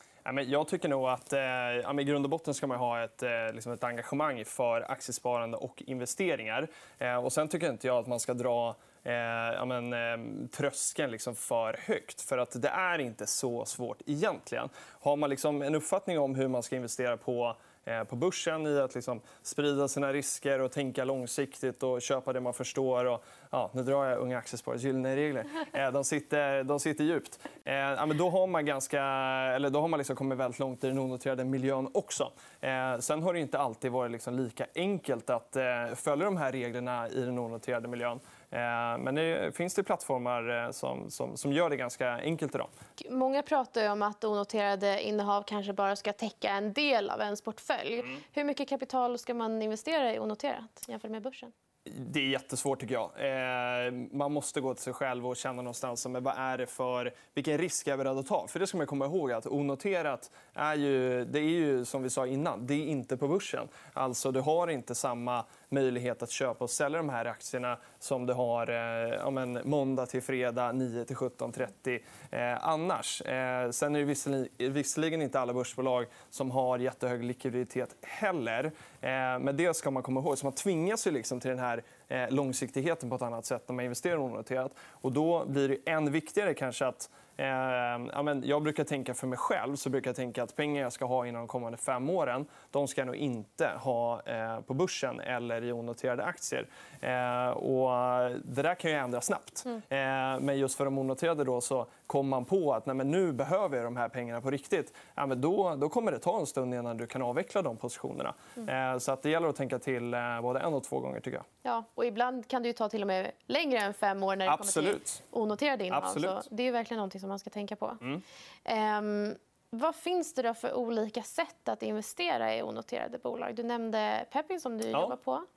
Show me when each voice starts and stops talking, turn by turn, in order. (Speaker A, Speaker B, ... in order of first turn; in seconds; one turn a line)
Speaker A: 0.2-42.7
Speaker B: 43.0-51.5
Speaker A: 51.9-111.5
Speaker B: 111.6-118.0
Speaker A: 114.5-115.2
Speaker A: 115.9-116.5
Speaker B: 118.7-125.5